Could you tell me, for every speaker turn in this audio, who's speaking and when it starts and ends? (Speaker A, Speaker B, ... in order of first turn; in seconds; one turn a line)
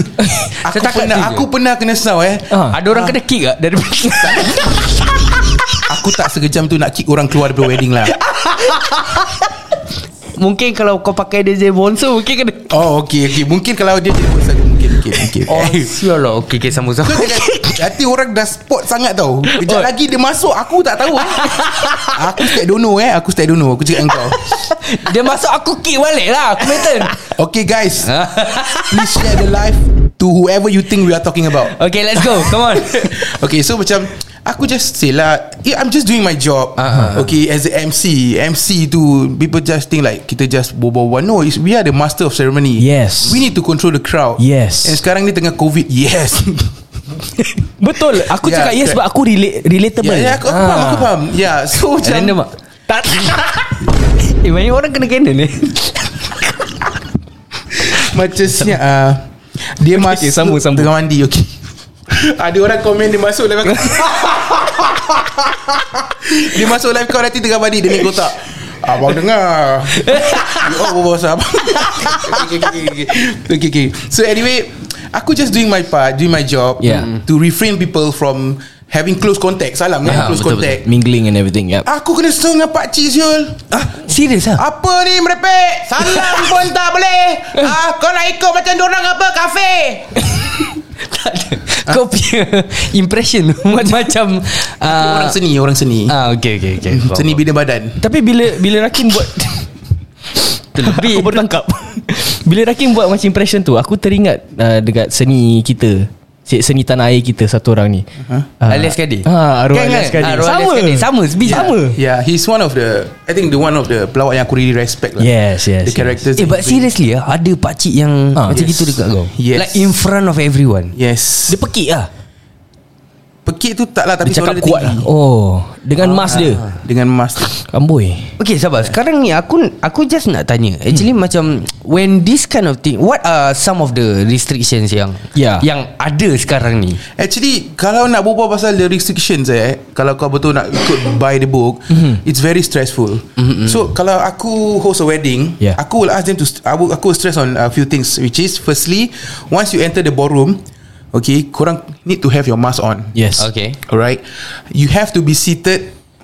Speaker A: 0.6-1.5
Speaker B: 0.6-3.1
Speaker C: 2.5-2.8
Speaker A: 2.7-4.9
Speaker B: 4.2-4.7
Speaker B: 5.9-8.2
Speaker A: 8.3-9.4
Speaker A: 10.3-12.7
Speaker B: 12.7-16.0
Speaker A: 15.4-17.8
Speaker B: 17.0-24.4
Speaker A: 19.6-19.9
Speaker A: 21.4-22.6
Speaker A: 24.4-27.2
Speaker B: 27.3-28.1
Speaker A: 28.0-29.1
Speaker B: 28.9-31.7
Speaker A: 31.7-33.2
Speaker B: 32.4-46.8
Speaker A: 36.8-37.3
Speaker C: 42.8-43.4
Speaker C: 44.4-45.0
Speaker C: 47.8-51.1
Speaker B: 48.3-49.0
Speaker B: 50.0-52.4
Speaker A: 52.0-52.5
Speaker C: 52.9-53.7
Speaker A: 54.2-56.4
Speaker B: 57.8-80.9
Speaker C: 59.9-60.9
Speaker C: 63.7-64.6
Speaker A: 70.2-70.6
Speaker A: 72.0-72.9
Speaker C: 76.8-77.1
Speaker A: 80.1-80.8
Speaker C: 80.8-81.8
Speaker B: 81.8-83.7
Speaker A: 83.7-84.6
Speaker B: 84.5-90.2
Speaker A: 86.1-86.5
Speaker A: 91.0-95.4
Speaker B: 94.8-96.2
Speaker A: 96.1-97.4
Speaker B: 96.8-98.0
Speaker C: 98.0-99.7
Speaker A: 100.7-101.4
Speaker C: 100.8-108.0
Speaker C: 108.6-112.0
Speaker A: 108.7-111.7
Speaker B: 111.5-116.9
Speaker C: 115.2-116.2
Speaker A: 116.4-120.9
Speaker B: 118.5-119.9
Speaker B: 120.9-121.6
Speaker C: 121.5-122.1
Speaker B: 123.4-125.1
Speaker C: 124.2-126.7
Speaker A: 126.3-126.6
Speaker B: 126.3-127.5
Speaker C: 127.7-128.3
Speaker A: 128.4-137.0
Speaker C: 135.3-135.6
Speaker B: 137.1-153.1
Speaker C: 141.9-142.2
Speaker A: 143.4-143.7
Speaker C: 153.1-153.5
Speaker A: 153.4-153.8
Speaker B: 153.8-155.9